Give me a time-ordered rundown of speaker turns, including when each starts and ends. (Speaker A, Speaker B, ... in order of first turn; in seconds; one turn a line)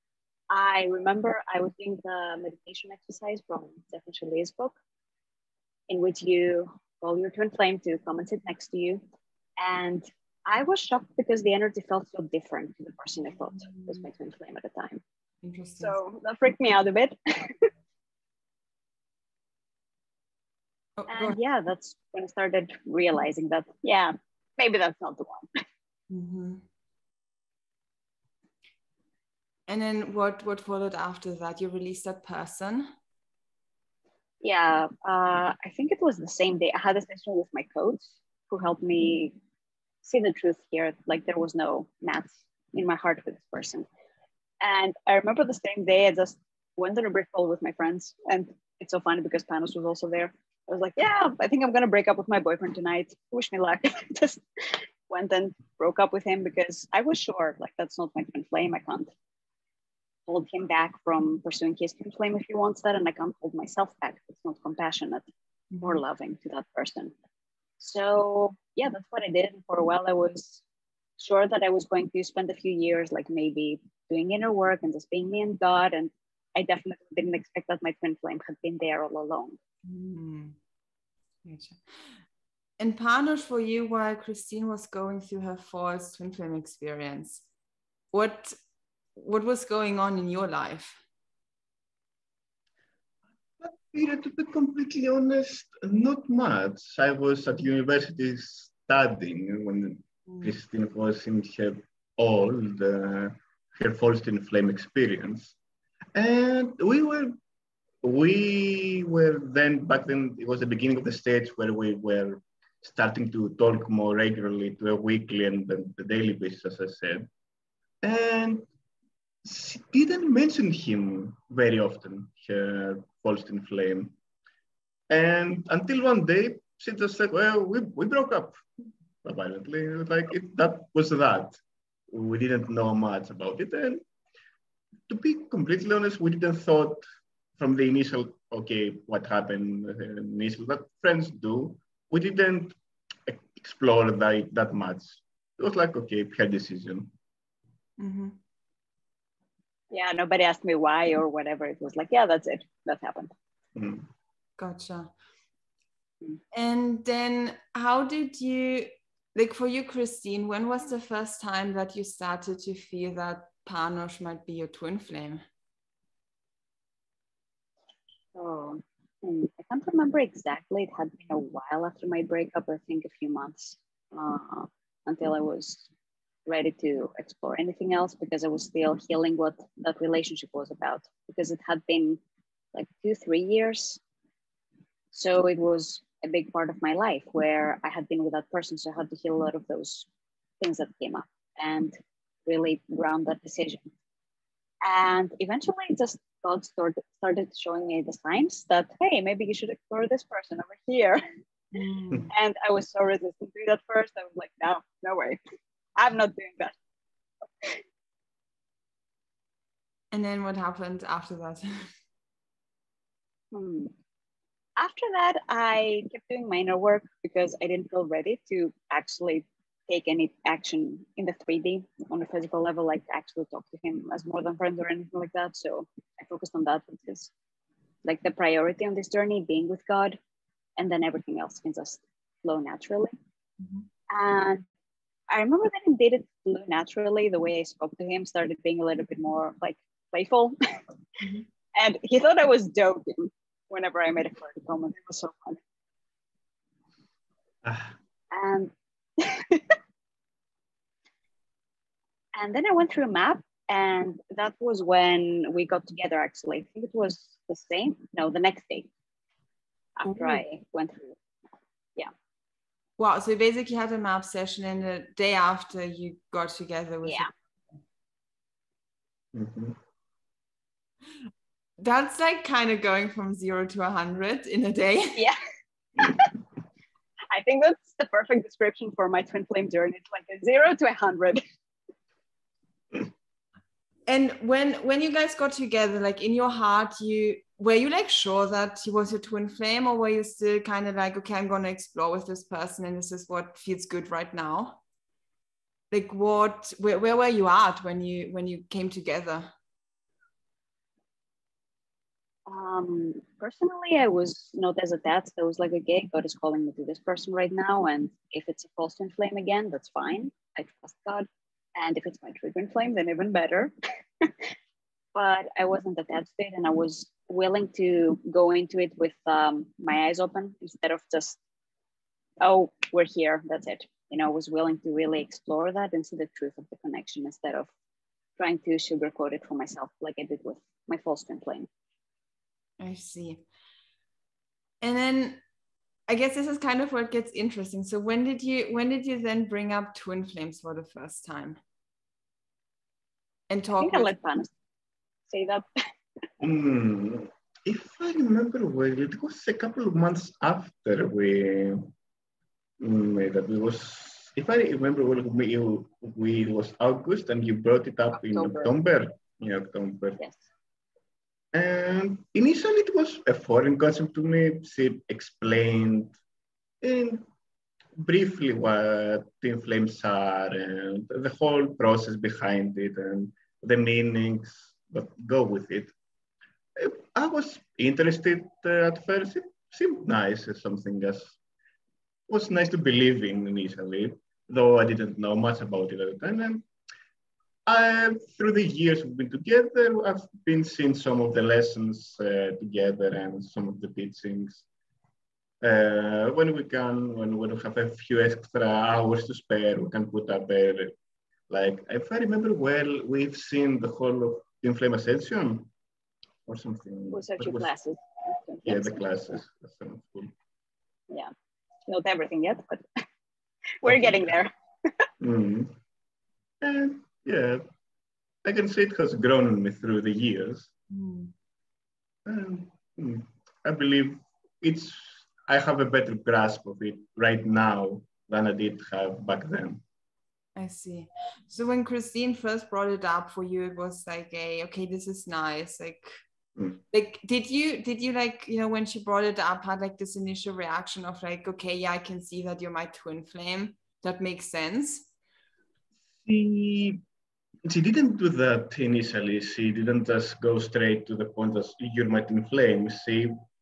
Speaker A: 0.5-4.8
Speaker A: 5.9-9.0
Speaker A: 9.6-15.0
Speaker B: 13.7-14.0
Speaker B: 15.4-16.0
Speaker A: 15.8-17.7
Speaker B: 21.0-21.4
Speaker A: 21.1-25.5
Speaker B: 26.1-26.6
Speaker B: 29.7-32.9
Speaker A: 34.4-39.4
Speaker A: 40.0-43.9
Speaker A: 44.6-59.1
Speaker A: 60.3-65.2
Speaker B: 65.7-66.0
Speaker A: 65.8-67.1
Speaker A: 67.8-70.6
Speaker A: 71.2-79.6
Speaker B: 79.8-80.6
Speaker B: 81.5-82.2
Speaker B: 82.8-87.5
Speaker B: 88.1-88.6
Speaker B: 89.2-91.0
Speaker C: 93.6-105.6
Speaker B: 100.3-100.5
Speaker C: 106.2-107.4
Speaker C: 108.0-117.3
Speaker C: 118.0-118.7
Speaker C: 119.4-124.2
Speaker C: 125.1-128.6
Speaker C: 129.2-131.6
Speaker C: 132.1-134.0
Speaker C: 135.1-137.0
Speaker C: 137.6-147.1
Speaker B: 148.0-148.4
Speaker A: 149.9-153.3
Speaker C: 153.8-154.1
Speaker B: 154.6-155.1
Speaker B: 156.5-165.4
Speaker A: 168.3-175.9
Speaker A: 176.5-182.2
Speaker A: 182.7-184.0
Speaker A: 185.1-190.1
Speaker A: 190.6-193.9
Speaker A: 194.8-201.2
Speaker B: 201.7-202.3
Speaker A: 202.3-205.4
Speaker A: 206.0-206.7
Speaker B: 210.1-211.9
Speaker A: 213.5-213.9
Speaker A: 214.8-227.3
Speaker A: 228.0-230.2
Speaker A: 230.8-233.1
Speaker B: 233.6-233.9
Speaker A: 234.1-234.6
Speaker A: 235.3-240.6
Speaker A: 241.8-245.6
Speaker C: 247.6-247.9
Speaker A: 248.3-249.8
Speaker A: 252.3-258.9
Speaker A: 260.0-261.2
Speaker B: 260.1-260.4
Speaker B: 263.0-267.3
Speaker C: 269.3-269.8
Speaker B: 271.8-275.2
Speaker A: 276.0-276.3
Speaker A: 277.3-281.4
Speaker B: 284.1-294.8
Speaker B: 295.9-299.5
Speaker A: 302.5-314.5
Speaker A: 315.1-321.4
Speaker A: 322.4-327.7
Speaker A: 328.4-331.7
Speaker B: 332.8-333.4
Speaker B: 334.8-335.4
Speaker B: 336.1-341.6
Speaker B: 343.5-344.1
Speaker A: 343.8-344.5
Speaker A: 345.3-345.7
Speaker C: 346.4-351.9
Speaker C: 352.8-360.2
Speaker A: 358.1-358.7
Speaker C: 361.5-366.1
Speaker C: 366.8-367.2
Speaker C: 368.0-375.9
Speaker C: 376.8-381.4
Speaker C: 382.3-386.7
Speaker C: 387.7-394.6
Speaker C: 395.6-401.0
Speaker C: 401.5-405.7
Speaker C: 406.5-407.7
Speaker A: 407.1-409.1
Speaker C: 408.6-410.3
Speaker A: 411.9-413.0
Speaker A: 413.8-415.1
Speaker C: 413.9-414.4
Speaker C: 415.2-415.8
Speaker C: 416.6-417.6
Speaker C: 418.4-420.7
Speaker B: 420.9-421.3
Speaker C: 422.3-429.8
Speaker B: 430.6-436.1
Speaker B: 436.9-445.1
Speaker C: 446.2-447.0
Speaker C: 447.7-453.4